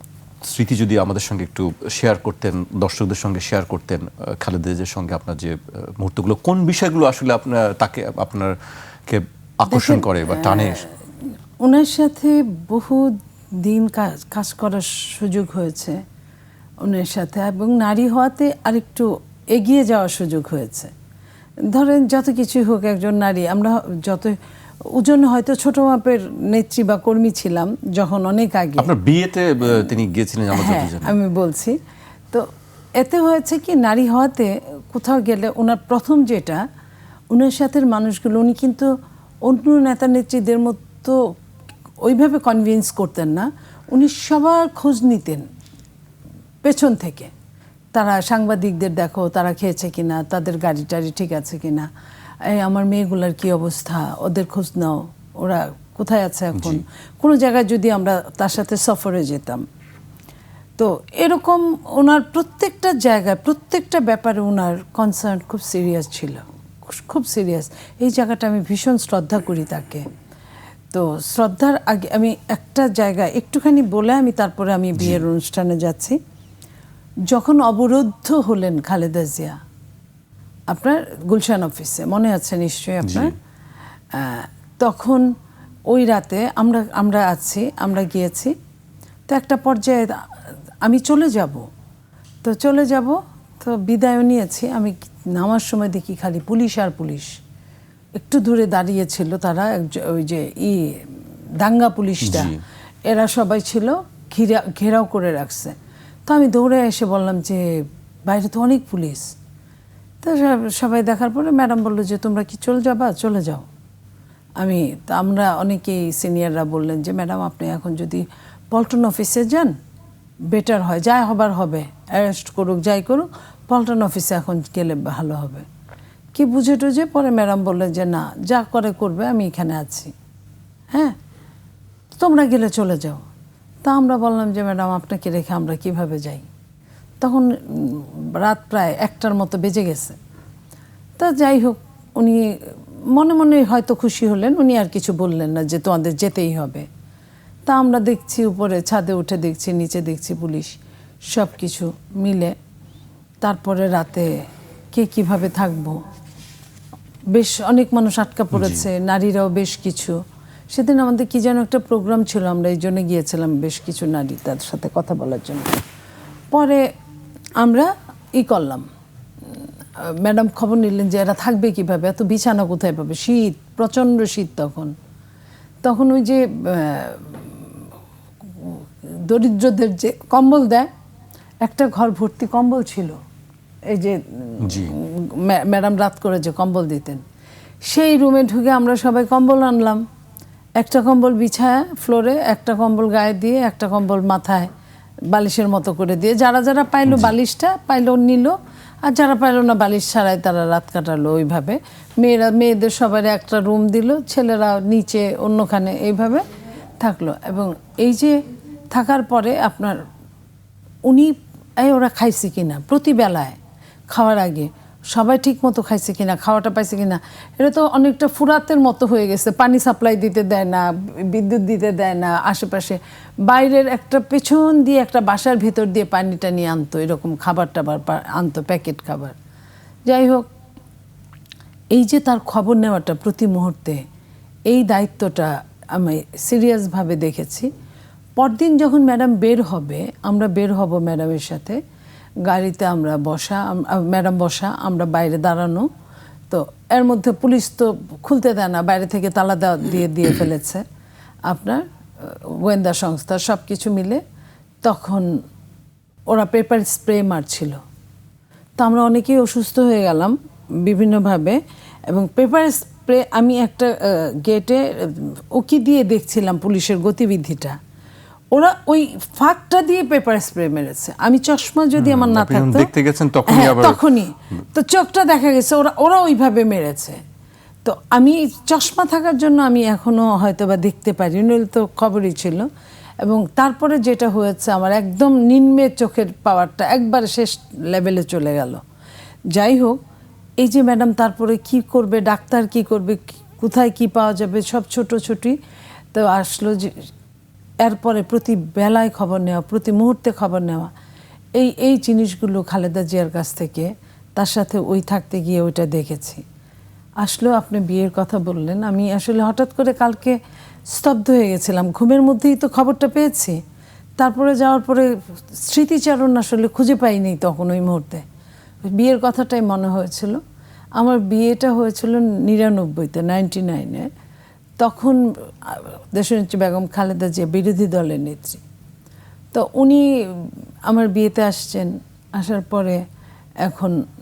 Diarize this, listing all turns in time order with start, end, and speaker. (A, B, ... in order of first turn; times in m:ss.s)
0:00.4-0:08.5 A
0:09.1-0:10.8 A
0:09.7-0:10.9 B
0:11.6-0:16.0 B
0:16.8-0:20.9 B
0:21.7-0:24.4 B
0:24.9-0:28.9 B
0:28.8-0:31.2 A
0:30.5-0:31.8 B
0:32.3-0:36.6 B
0:37.3-0:38.9 B
0:39.4-0:41.2 B
0:42.0-0:45.4 B
0:46.6-0:47.3 B
0:47.9-0:51.9 B
0:52.5-0:59.6 B
0:56.5-0:56.8 A
1:00.8-1:10.0 B
1:10.9-1:16.2 B
1:15.0-1:15.2 A
1:17.3-1:19.5 B
1:20.7-1:23.3 B
1:23.0-1:23.3 A
1:24.1-1:25.2 B
1:25.9-1:28.5 B
1:29.3-1:30.2 B
1:30.8-1:31.6 B
1:32.4-1:37.3 B
1:38.2-1:42.5 B
1:42.2-1:42.6 A
1:43.0-1:49.3 B
1:50.2-1:53.6 B
1:54.6-1:59.7 B
2:00.5-2:05.6 B
2:06.3-2:10.1 B
2:12.2-2:13.2 B
2:13.8-2:16.4 B
2:17.2-2:20.2 B
2:21.2-2:26.9 B
2:27.7-2:30.8 B
2:31.3-2:32.5 B
2:33.4-2:34.3 B
2:34.9-2:36.0 B
2:37.3-2:40.2 B
2:38.5-2:38.8 A
2:40.7-2:45.7 B
2:46.5-2:46.8 B
2:47.6-2:48.8 B
2:49.5-2:54.9 B
2:55.8-2:57.7 B
2:58.4-3:00.9 B
3:01.6-3:03.2 B
3:03.9-3:07.2 B
3:04.6-3:04.9 A
3:07.8-3:10.0 B
3:10.8-3:14.7 B
3:15.3-3:26.4 B
3:17.1-3:17.3 A
3:27.0-3:28.4 B
3:28.9-3:30.0 B
3:31.1-3:33.6 B
3:34.1-3:49.3 B
3:50.0-3:50.4 B
3:51.9-3:54.0 B
3:54.7-3:57.7 B
3:58.4-4:01.8 B
4:02.4-4:05.9 B
4:06.5-4:10.8 B
4:11.5-4:14.2 B
4:14.8-4:15.3 B
4:16.3-4:17.8 B
4:18.8-4:27.8 B
4:28.5-4:32.9 B
4:32.0-4:34.0 A
4:33.5-4:37.2 B
4:37.8-4:42.7 B
4:43.2-4:48.8 B
4:49.5-4:50.0 B
4:50.6-4:55.6 B
4:56.1-4:57.1 B
4:57.8-5:00.9 B
5:01.6-5:06.4 B
5:07.2-5:10.4 B
5:10.9-5:13.6 B
5:14.2-5:18.2 B
5:18.8-5:20.4 B
5:21.0-5:24.1 B
5:24.8-5:28.6 B
5:29.5-5:33.0 B
5:33.6-5:34.0 B